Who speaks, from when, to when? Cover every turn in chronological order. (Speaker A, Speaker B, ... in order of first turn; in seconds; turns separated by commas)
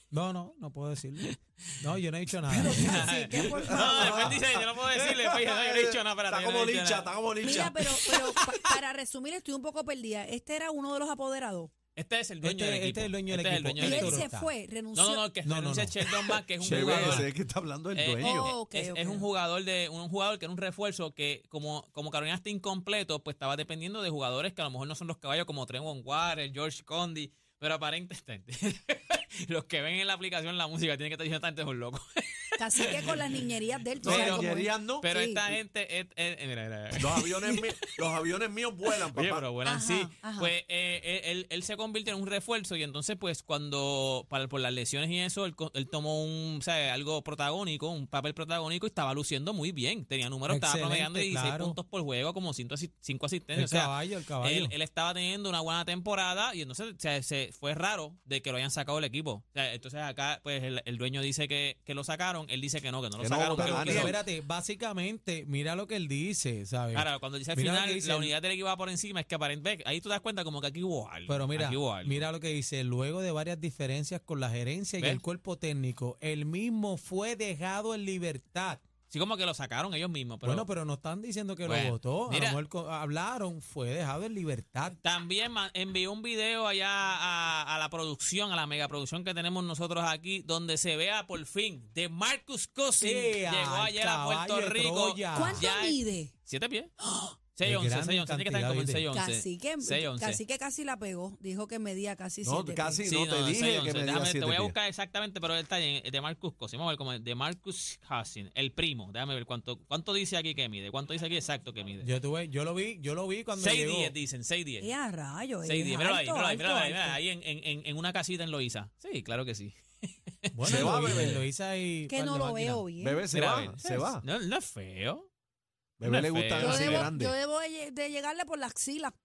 Speaker A: 0.1-3.1, Speaker B: 2.5-8.6, Speaker C: 2.7-4.3, Speaker D: 3.8-7.7, Speaker C: 7.4-11.7, Speaker B: 11.9-14.3, Speaker A: 12.4-14.5, Speaker C: 13.8-15.2, Speaker B: 14.9-17.3, Speaker A: 15.4-16.0, Speaker D: 16.6-18.5, Speaker A: 16.6-17.3, Speaker B: 17.9-33.3, Speaker C: 18.2-19.3, Speaker C: 32.6-35.4, Speaker D: 34.0-35.0, Speaker B: 34.0-37.8, Speaker D: 37.0-39.5, Speaker B: 39.0-64.2, Speaker C: 39.6-40.5, Speaker A: 50.5-51.8, Speaker A: 53.5-54.7, Speaker D: 63.2-64.2, Speaker A: 63.6-68.3, Speaker B: 66.9-72.3, Speaker A: 71.3-78.8, Speaker B: 79.1-80.7, Speaker A: 80.4-85.0, Speaker B: 81.6-82.6, Speaker B: 85.0-100.4, Speaker A: 93.0-95.7, Speaker C: 95.3-96.3, Speaker A: 97.6-99.1, Speaker C: 99.1-103.0, Speaker D: 102.4-104.7, Speaker B: 103.1-112.1, Speaker A: 112.0-114.1, Speaker B: 113.5-114.9, Speaker C: 114.8-117.2, Speaker B: 115.6-121.4, Speaker A: 120.5-122.9, Speaker D: 120.6-121.4, Speaker C: 122.1-123.2, Speaker D: 123.0-124.2, Speaker B: 123.3-125.3, Speaker D: 126.0-127.3, Speaker B: 126.0-127.1, Speaker C: 126.6-129.1